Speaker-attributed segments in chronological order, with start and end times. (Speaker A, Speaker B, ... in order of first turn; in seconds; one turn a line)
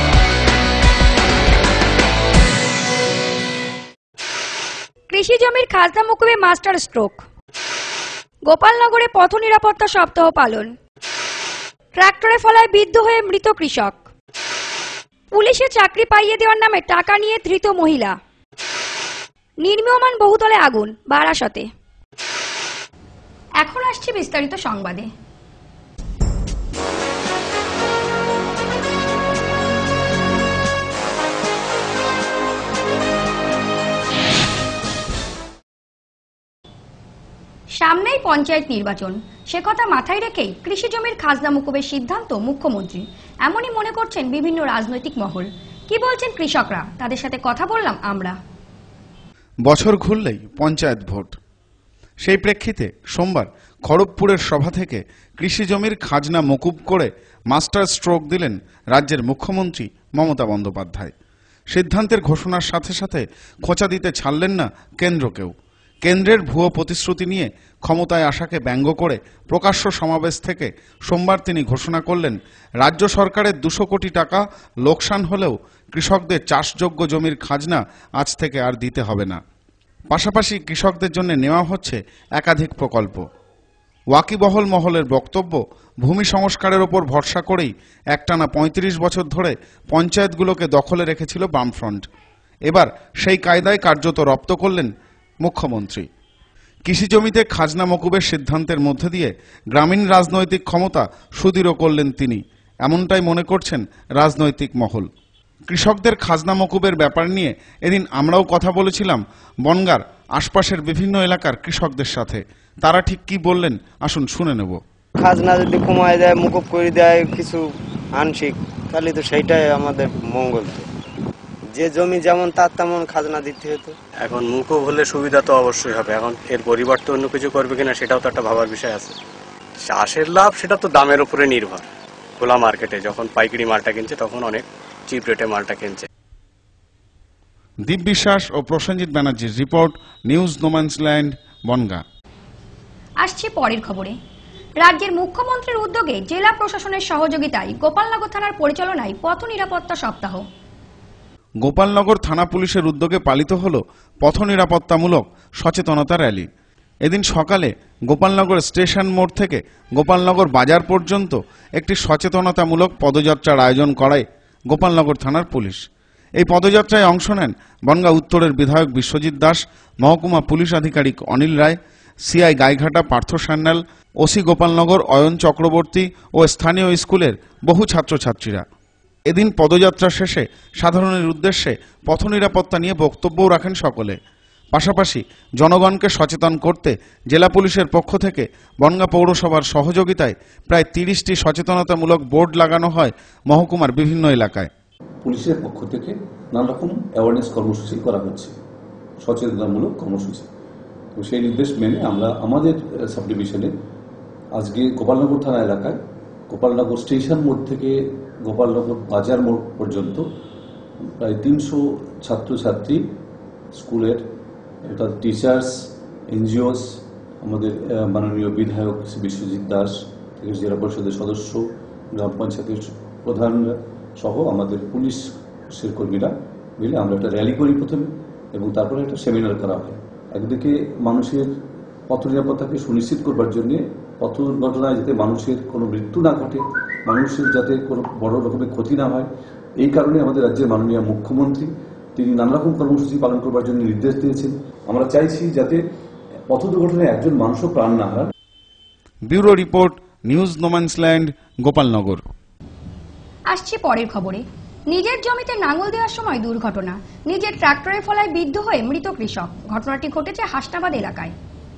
Speaker A: 5.1-7.2
Speaker A: 8.4-10.7
Speaker A: 11.9-14.0
Speaker A: 15.3-18.2
Speaker A: 19.6-21.7
Speaker A: 23.6-25.1
Speaker A: 37.8-48.4
Speaker B: 49.6-51.3
Speaker B: 52.2-61.1
Speaker B: 61.7-65.5
Speaker B: 66.0-79.4
Speaker B: 80.1-83.2
Speaker B: 84.1-92.0
Speaker B: 92.7-94.9
Speaker B: 95.4-96.0
Speaker B: 96.8-105.1
Speaker B: 105.7-114.8
Speaker C: 115.2-120.9
Speaker C: 121.7-124.0
Speaker D: 124.2-129.2
Speaker D: 129.8-131.9
Speaker D: 132.4-136.1
Speaker B: 137.9-142.0
Speaker A: 143.2-144.2
Speaker A: 144.8-150.4
Speaker B: 151.6-156.5
Speaker B: 157.0-165.8
Speaker B: 166.4-178.6
Speaker B: 179.3-184.2
Speaker B: 184.7-194.7
Speaker E: 195.2-198.5
Speaker E: 199.2-200.5
Speaker E: 201.2-203.7
Speaker E: 204.5-206.0
Speaker E: 206.5-210.2
Speaker E: 211.0-213.0
Speaker E: 213.7-214.2
Speaker E: 214.8-231.5
Speaker E: 232.1-245.8
Speaker E: 246.5-248.3
Speaker B: 249.3-252.2
Speaker A: 253.5-261.3